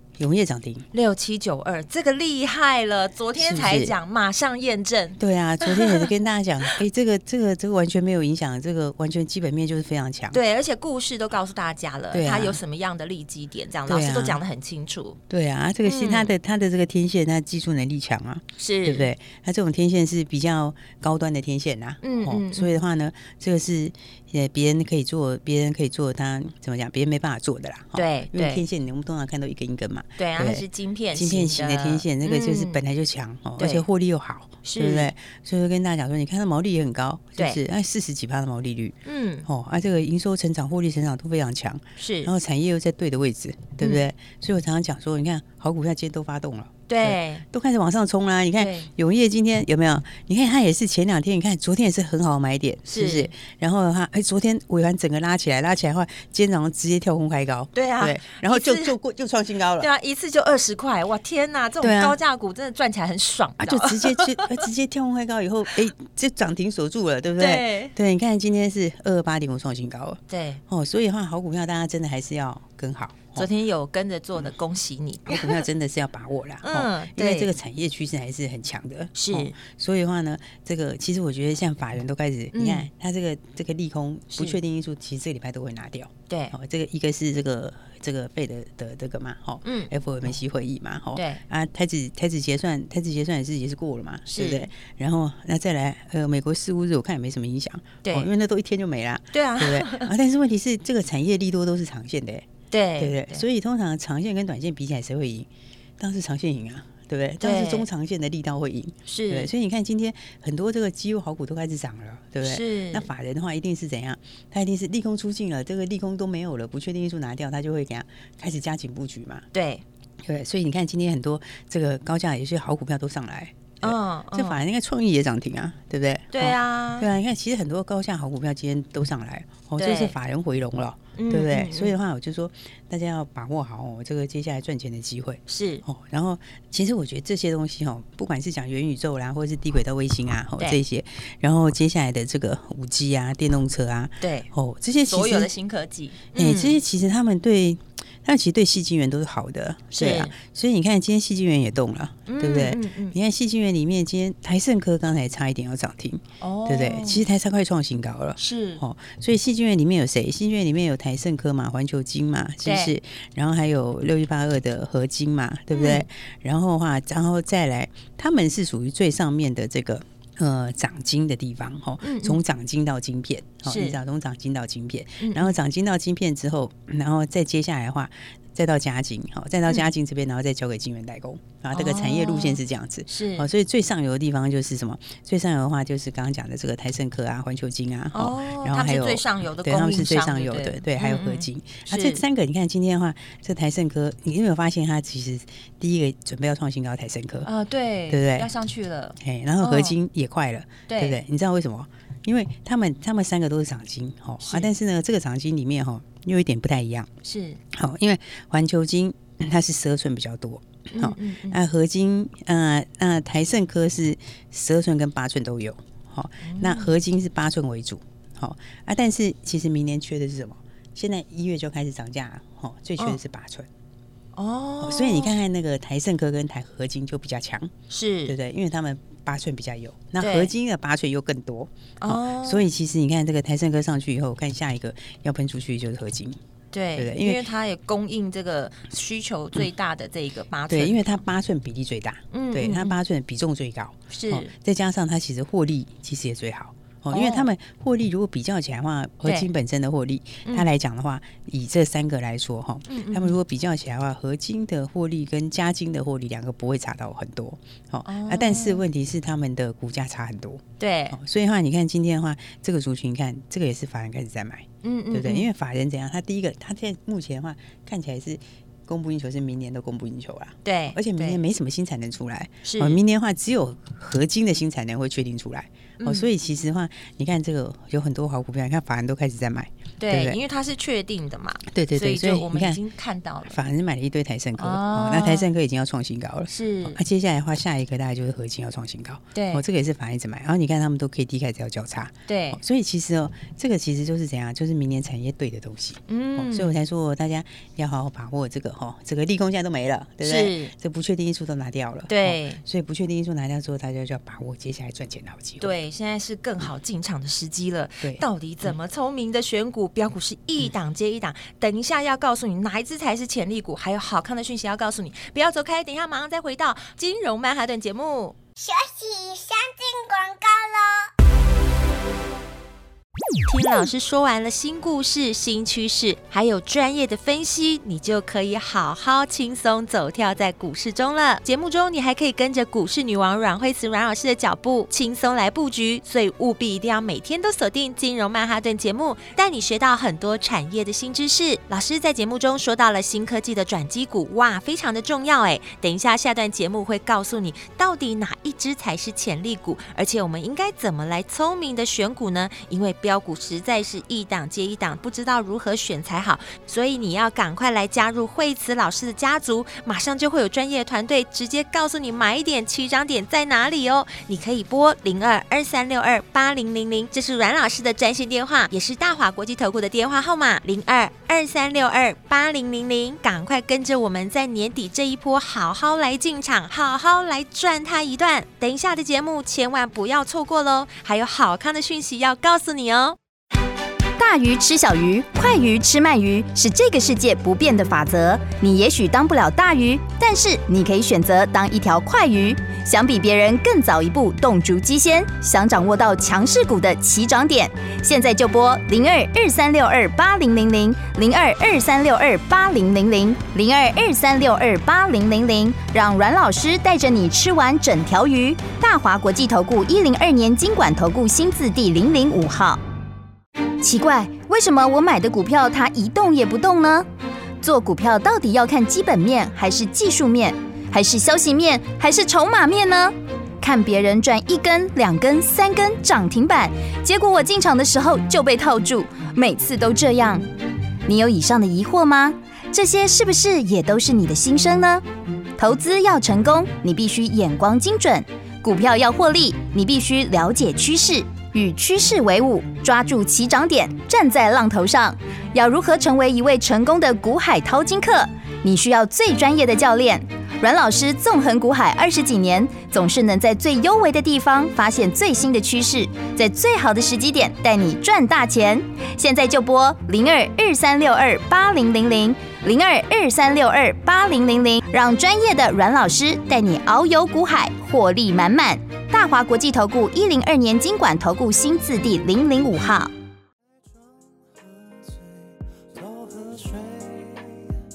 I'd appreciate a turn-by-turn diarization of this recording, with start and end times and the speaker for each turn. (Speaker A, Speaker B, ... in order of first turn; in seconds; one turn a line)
Speaker A: 0.2-0.9
Speaker B: 0.9-6.1
Speaker A: 3.4-4.0
Speaker A: 5.2-10.4
Speaker B: 10.3-15.2
Speaker A: 12.1-12.6
Speaker A: 13.9-14.4
Speaker A: 15.3-59.9
Speaker B: 15.8-16.3
Speaker B: 18.6-19.1
Speaker B: 22.0-22.8
Speaker B: 27.9-28.6
Speaker B: 30.2-32.8
Speaker B: 33.6-33.9
Speaker B: 34.6-35.1
Speaker B: 39.1-39.5
Speaker B: 42.0-42.3
Speaker B: 46.9-47.4
Speaker B: 48.6-48.9
Speaker B: 52.9-53.3
Speaker B: 57.7-59.0
Speaker B: 59.8-64.6
Speaker A: 61.8-62.2
Speaker A: 63.6-73.5
Speaker B: 67.4-68.0
Speaker B: 70.3-70.6
Speaker B: 73.3-75.7
Speaker A: 75.3-102.5
Speaker B: 76.6-77.5
Speaker B: 79.2-79.6
Speaker B: 82.5-82.9
Speaker B: 84.3-84.6
Speaker B: 86.3-86.5
Speaker B: 89.6-89.9
Speaker B: 91.2-91.4
Speaker B: 94.3-94.7
Speaker B: 98.0-98.3
Speaker B: 99.3-100.1
Speaker B: 102.7-103.4
Speaker A: 103.0-105.5
Speaker A: 106.0-119.5
Speaker B: 107.4-107.9
Speaker B: 109.1-109.5
Speaker B: 112.4-113.1
Speaker B: 119.5-119.8
Speaker A: 120.2-145.5
Speaker B: 123.8-124.6
Speaker B: 126.3-127.1
Speaker B: 129.8-130.2
Speaker B: 131.2-131.9
Speaker B: 135.5-135.8
Speaker B: 144.2-144.5
Speaker B: 145.1-146.8
Speaker A: 146.3-197.5
Speaker B: 149.9-150.3
Speaker B: 152.3-153.2
Speaker B: 156.4-157.3
Speaker B: 158.4-158.8
Speaker B: 162.6-162.9
Speaker B: 165.7-166.1
Speaker B: 172.0-172.4
Speaker B: 173.7-174.0
Speaker B: 175.2-175.6
Speaker B: 181.7-183.5
Speaker B: 188.1-192.2
Speaker B: 197.4-200.0
Speaker A: 198.1-198.5
Speaker A: 199.2-207.1
Speaker B: 200.9-201.2
Speaker B: 204.4-204.7
Speaker B: 207.2-207.6
Speaker A: 207.7-223.7
Speaker B: 210.9-211.6
Speaker B: 216.4-216.9
Speaker B: 224.3-225.3
Speaker A: 224.8-227.7
Speaker B: 227.9-228.3
Speaker A: 228.3-236.4
Speaker B: 230.2-230.5
Speaker B: 232.0-232.7
Speaker B: 236.7-241.1
Speaker A: 237.0-237.4
Speaker A: 240.7-280.4
Speaker B: 242.3-243.0
Speaker B: 244.1-244.5
Speaker B: 247.1-247.5
Speaker B: 249.2-249.5
Speaker B: 252.9-253.4
Speaker B: 258.1-258.8
Speaker B: 260.8-261.2
Speaker B: 264.8-265.5
Speaker B: 270.6-271.4
Speaker B: 272.6-273.0
Speaker B: 276.0-276.3
Speaker B: 280.0-283.6
Speaker A: 281.7-282.8
Speaker A: 283.5-305.7
Speaker B: 284.6-285.5
Speaker B: 286.5-287.0
Speaker B: 289.3-289.6
Speaker B: 292.3-292.6
Speaker B: 296.1-296.8
Speaker B: 300.2-300.7
Speaker B: 302.1-302.6
Speaker B: 305.6-318.4
Speaker C: 318.6-321.1
Speaker B: 323.5-383.2
Speaker D: 384.2-412.8
Speaker D: 413.8-417.1
Speaker D: 417.6-430.5
Speaker D: 431.1-435.0
Speaker D: 435.6-473.1
Speaker E: 474.0-477.7